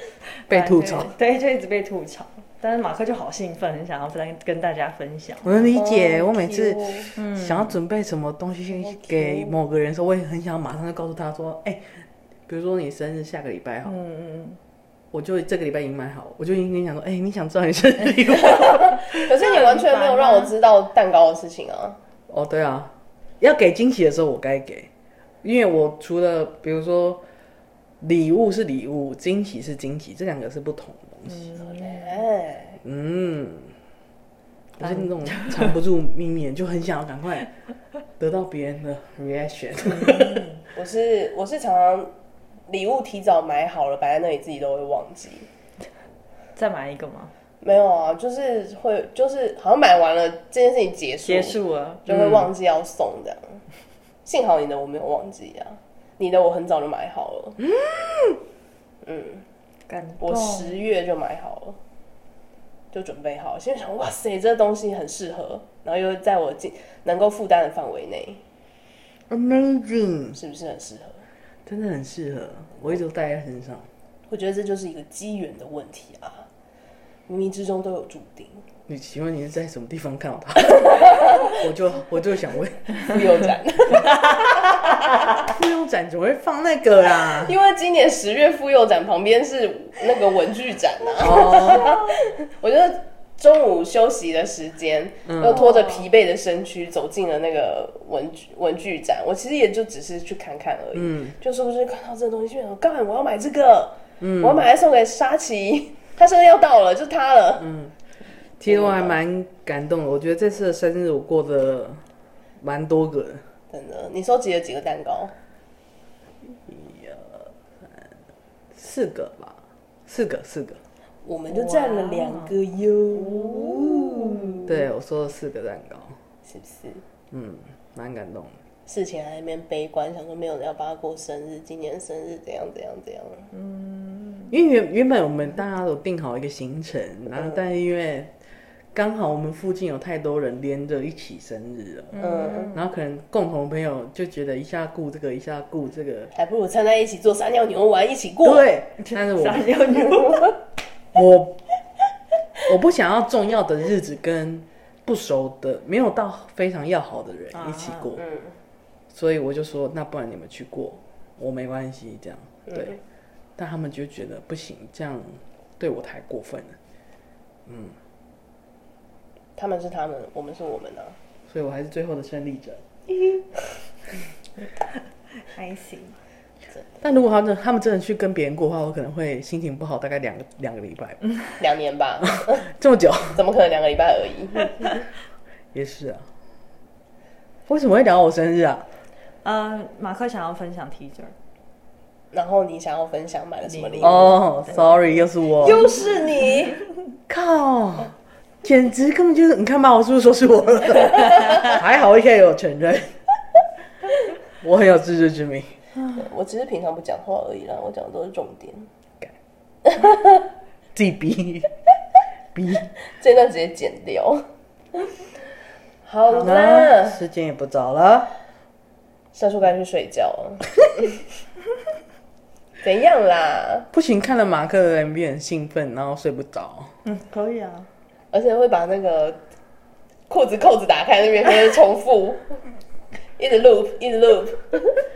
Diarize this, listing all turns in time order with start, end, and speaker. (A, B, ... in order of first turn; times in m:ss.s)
0:00.5-0:05.7 A
0:00.5-0:01.1 B
0:05.4-0:13.9 B
0:05.7-0:07.1 C
0:07.2-0:07.8 A
0:13.8-0:14.6 A
0:15.1-0:19.2 B
0:18.5-0:22.0 C
0:19.2-0:20.5 A
0:22.3-0:24.9 B
0:25.4-0:27.2 B
0:28.0-0:31.5 B
0:31.3-0:32.2 A
0:31.6-0:32.8 C
0:32.8-0:33.7 B
0:34.8-0:37.5 B
0:34.8-0:35.7 A
0:38.2-0:40.5 B
0:39.9-0:40.6 A
0:40.7-0:42.1 C
0:42.7-0:45.5 C
0:46.6-0:47.3 A
0:47.6-0:53.6 C
0:51.2-0:52.0 A
0:52.1-0:52.5 B
0:54.2-0:57.6 C
0:59.0-0:59.4 C
0:59.9-1:00.8 A
1:00.2-1:01.8 C
1:02.9-1:08.4 C
1:09.3-1:10.4 B
1:10.3-1:11.2 C
1:11.6-1:13.9 B
1:14.3-1:16.5 C
1:17.3-1:18.6 C
1:18.9-1:23.2 B
1:20.7-1:21.6 C
1:22.9-1:25.2 C
1:25.4-1:27.6 B
1:27.1-1:47.8 C
1:31.2-1:32.0 B
1:35.3-1:35.6 B
1:35.6-1:36.0 A
1:40.9-1:41.4 B
1:44.2-1:44.6 B
1:47.6-1:47.9 B
1:48.6-1:52.0 B
1:48.6-1:49.2 C
1:52.6-1:53.4 B
1:53.7-1:55.3 C
1:56.5-1:58.1 B
1:58.7-2:00.8 B
2:01.2-2:04.7 C
2:01.5-2:02.5 A
2:03.1-2:04.6 A
2:04.6-2:06.2 B
2:06.4-2:07.0 C
2:07.3-2:08.6 B
2:08.9-2:13.5 C
2:13.5-2:14.5 A
2:14.5-2:18.3 B
2:17.3-2:17.6 C
2:18.9-2:22.2 B
2:22.1-2:22.8 A
2:22.2-2:22.7 C
2:22.7-2:26.3 B
2:26.3-2:28.7 C
2:28.4-2:29.8 B
2:29.0-2:30.6 A
2:31.1-2:31.6 B
2:32.7-2:38.2 B
2:37.5-2:38.2 A
2:38.2-2:38.5 C
2:39.1-2:43.0 B
2:43.6-2:46.8 B
2:47.7-2:48.0 B
2:49.6-2:51.1 C
2:51.5-2:52.8 B
2:55.5-2:56.2 A
2:57.0-3:01.2 B
3:01.6-3:02.6 C
3:02.4-3:03.4 B
3:03.3-3:04.8 C
3:05.7-3:06.3 B
3:07.7-3:08.8 B
3:09.4-3:11.3 A
3:12.3-3:14.4 C
3:13.7-3:15.0 A
3:14.0-3:15.8 B
3:15.6-3:16.8 C
3:15.6-3:16.1 A
3:17.3-3:23.1 B
3:24.6-3:25.8 B
3:26.1-3:28.9 C
3:29.8-3:30.4 C
3:30.9-3:31.7 B
3:32.5-3:32.9 B
3:33.1-3:34.4 C
3:36.0-3:37.2 C
3:36.4-3:38.3 B
3:39.3-3:41.2 C
3:42.8-3:43.9 C
3:43.9-3:46.9 B
3:47.0-3:47.9 A
3:48.3-3:49.4 C
3:50.3-3:52.6 C
3:53.4-3:55.0 C